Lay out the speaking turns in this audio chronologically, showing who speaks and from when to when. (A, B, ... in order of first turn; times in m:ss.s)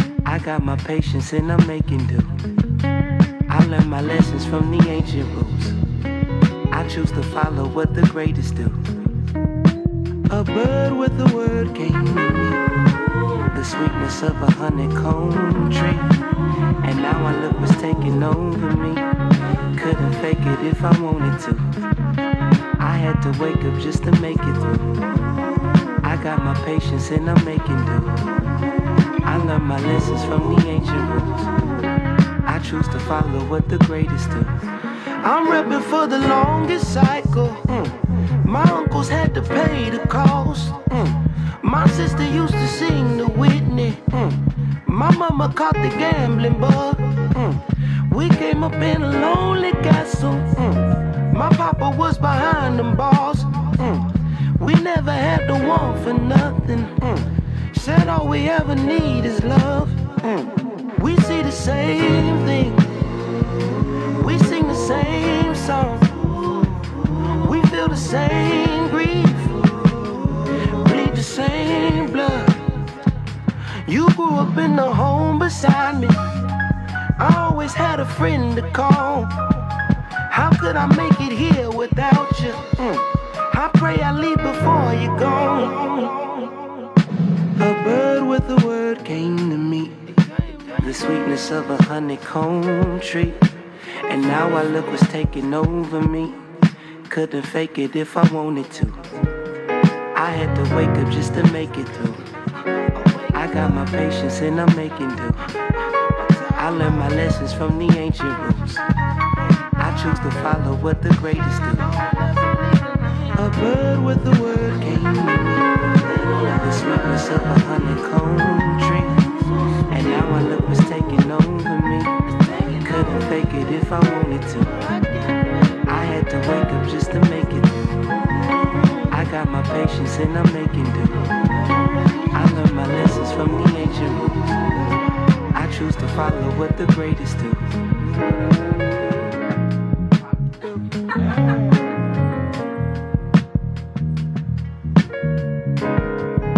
0:00.2-0:02.4 A
0:03.5-0:05.8 A
0:06.7-0:08.9 A
0:10.3-0:12.7 A
0:13.4-0:16.2 A
0:16.8-0:19.1 A
0:19.7-0:21.8 A
0:22.8-0:25.0 A
0:26.0-0:28.5 A
0:29.2-0:31.7 A
0:32.4-0:34.6 A
0:35.2-1:03.0 A
1:04.0-1:12.7 A
1:13.8-1:16.2 A
1:17.2-1:19.3 A
1:20.3-1:26.5 A
1:27.6-1:30.2 A
1:30.7-1:33.4 A
1:34.0-1:36.5 A
1:37.1-1:39.2 A
1:40.1-1:42.2 A
1:43.0-1:45.4 A
1:46.5-1:48.8 A
1:49.8-2:04.9 A
2:05.8-2:08.1 A
2:09.1-2:11.4 A
2:12.3-2:14.6 A
2:15.5-2:17.7 A